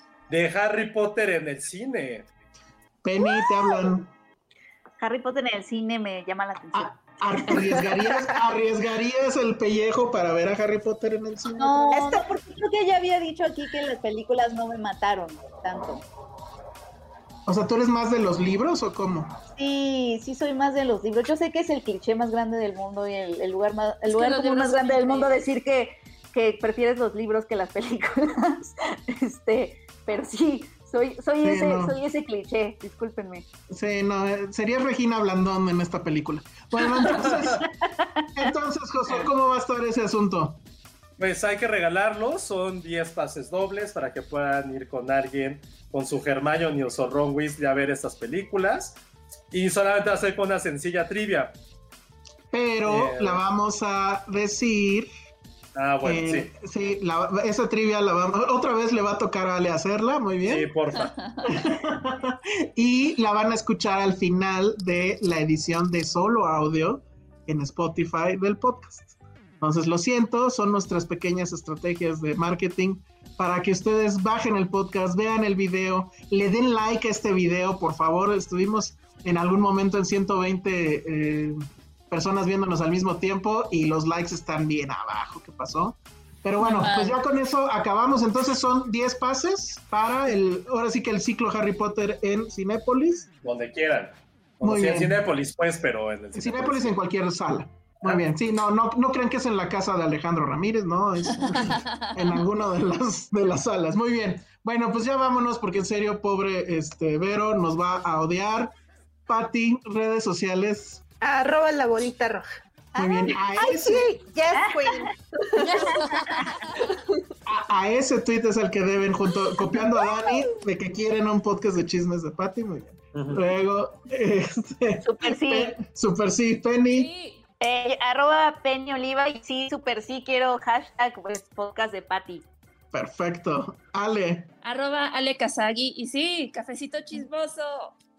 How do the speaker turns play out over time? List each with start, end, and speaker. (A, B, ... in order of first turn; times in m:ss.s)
0:00.3-0:02.3 A
0:03.0-0:04.1 B
0:03.4-0:03.7 C
0:05.0-0:07.8 D
0:06.7-0:12.1 B
0:07.5-0:08.4 C
0:11.5-0:16.0 D
0:11.9-0:12.3 C
0:17.5-0:19.4 B
0:19.6-0:33.4 D
0:24.1-0:25.4 E
0:31.4-0:32.0 B
0:33.7-0:37.7 B
0:37.0-0:38.2 D
0:37.0-0:37.6 A
0:38.4-0:40.6 B
0:41.2-0:49.0 A
0:49.5-0:51.5 A
0:52.5-0:55.1 B
0:52.8-0:53.4 A
0:55.8-0:56.5 A
0:56.0-1:00.7 B
1:00.5-1:01.2 A
1:01.0-1:01.6 E
1:01.5-1:21.6 B
1:22.1-1:33.3 B
1:26.6-1:27.2 E
1:33.4-1:37.0 A
1:34.6-1:35.2 B
1:36.4-1:48.7 B
1:41.4-1:42.4 E
1:49.3-1:51.0 B
1:51.2-1:56.2 C
1:53.0-1:54.1 B
1:54.5-1:55.1 D
1:55.6-1:56.6 E
1:57.5-2:07.1 B
1:59.8-2:00.4 C
2:03.1-2:03.4 A
2:05.0-2:05.8 D
2:06.9-2:07.4 E
2:07.6-2:12.4 D
2:12.9-2:14.5 B
2:14.6-2:18.0 E